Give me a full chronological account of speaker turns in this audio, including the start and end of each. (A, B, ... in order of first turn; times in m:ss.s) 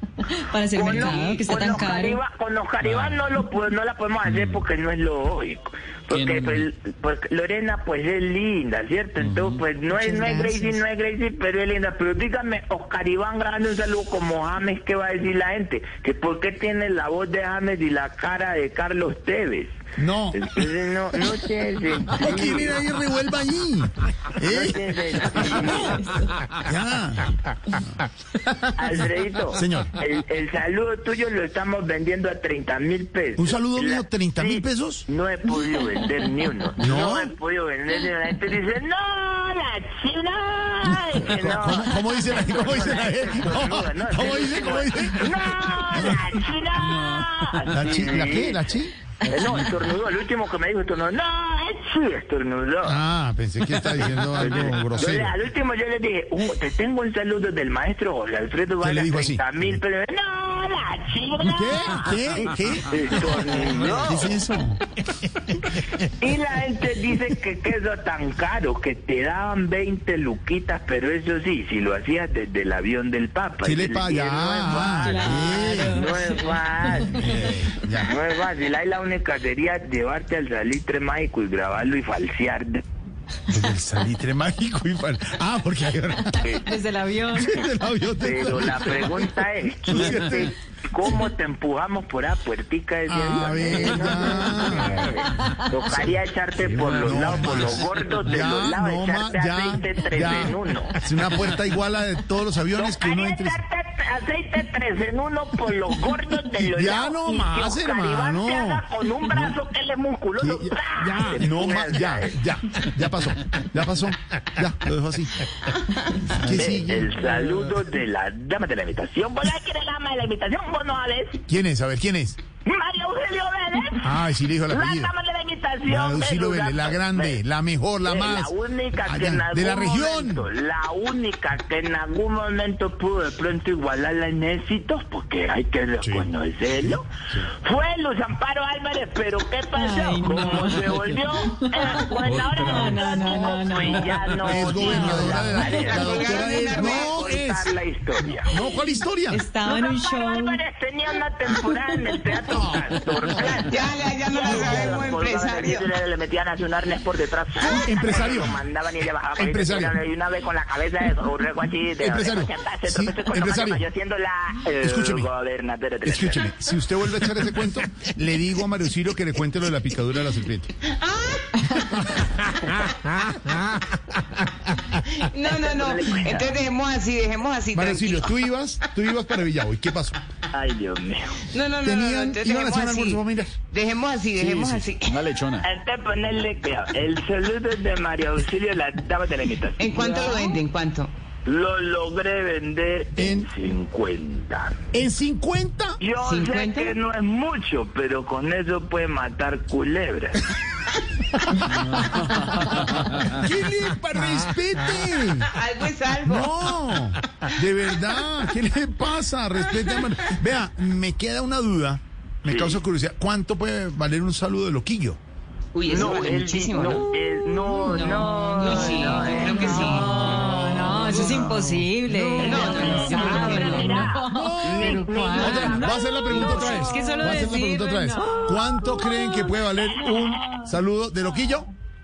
0:00.2-0:02.2 A
0:00.7-0:19.8 B
0:02.8-0:03.2 C
0:04.3-0:04.6 C
0:06.1-0:06.7 C
0:09.2-0:09.6 C
0:10.0-0:10.8 A
0:20.0-0:20.5 D
0:20.3-0:22.8 B
0:22.1-0:25.9 D
0:24.4-0:26.0 B
0:25.8-0:26.3 A
0:26.6-0:27.4 D
0:28.8-0:48.6 B
0:29.5-0:30.0 D
0:33.4-0:35.1 D
0:36.8-0:37.3 D
0:41.0-0:45.4 D
0:45.9-0:46.4 D
0:47.7-0:49.0 D
0:49.3-0:53.0 B
0:52.8-0:55.3 D
0:54.2-1:04.4 B
0:58.8-0:59.5 D
1:01.4-1:04.8 D
1:06.2-1:17.4 B
1:13.6-1:16.0 D
1:14.9-1:17.5 A
1:17.0-1:18.1 D
1:18.0-1:22.8 B
1:23.5-1:26.4 D
1:26.4-1:26.6 B
1:26.6-1:27.6 A
1:27.3-1:29.3 D
1:28.2-1:41.0 B
1:29.8-1:30.5 D
1:33.1-1:35.1 D
1:36.9-1:43.6 D
1:42.8-1:52.4 B
1:46.6-1:49.6 D
1:50.4-1:55.5 D
1:56.3-1:57.1 D
1:56.5-2:01.4 B
2:01.5-2:02.4 D
2:02.6-2:04.1 B
2:04.0-2:05.1 D
2:04.7-2:07.4 B
2:05.9-2:10.5 D
2:08.0-2:17.0 B
2:16.0-2:16.3 D
2:16.8-2:17.4 D
2:17.6-2:28.6 B
2:19.7-2:25.9 A
2:22.5-2:23.3 D
2:24.0-2:27.7 D
2:25.6-2:27.0 E
2:28.4-2:29.4 D
2:29.3-2:30.6 A
2:29.6-2:46.4 B
2:31.5-2:32.6 A
2:33.7-2:35.9 E
2:37.6-2:38.6 D
2:39.4-2:40.0 D
2:42.0-2:43.9 D
2:44.8-2:45.3 D
2:46.0-2:50.7 D
2:51.0-2:51.5 E
2:52.2-2:53.8 D
2:55.3-2:58.3 E
2:55.4-2:56.7 B
2:57.7-3:00.2 D
3:00.5-3:01.5 B
3:01.5-3:05.2 E
3:01.8-3:03.6 D
3:04.4-3:05.7 C
3:05.6-3:10.5 B
3:09.8-3:11.1 E
3:11.4-3:14.8 B
3:13.2-3:13.5 D
3:14.9-3:16.0 D
3:16.0-3:20.4 B
3:16.2-3:16.9 E
3:21.8-3:25.5 D
3:25.6-3:26.7 E
3:26.2-3:35.2 D
3:32.5-3:32.8 B
3:35.7-3:37.1 E
3:35.8-3:40.5 B
3:37.8-3:40.3 E
3:38.2-3:49.5 A
3:39.7-3:41.7 D
3:41.1-3:41.5 B
3:42.1-3:43.8 E
3:42.4-3:46.9 B
3:42.5-3:43.5 D
3:44.0-3:51.7 D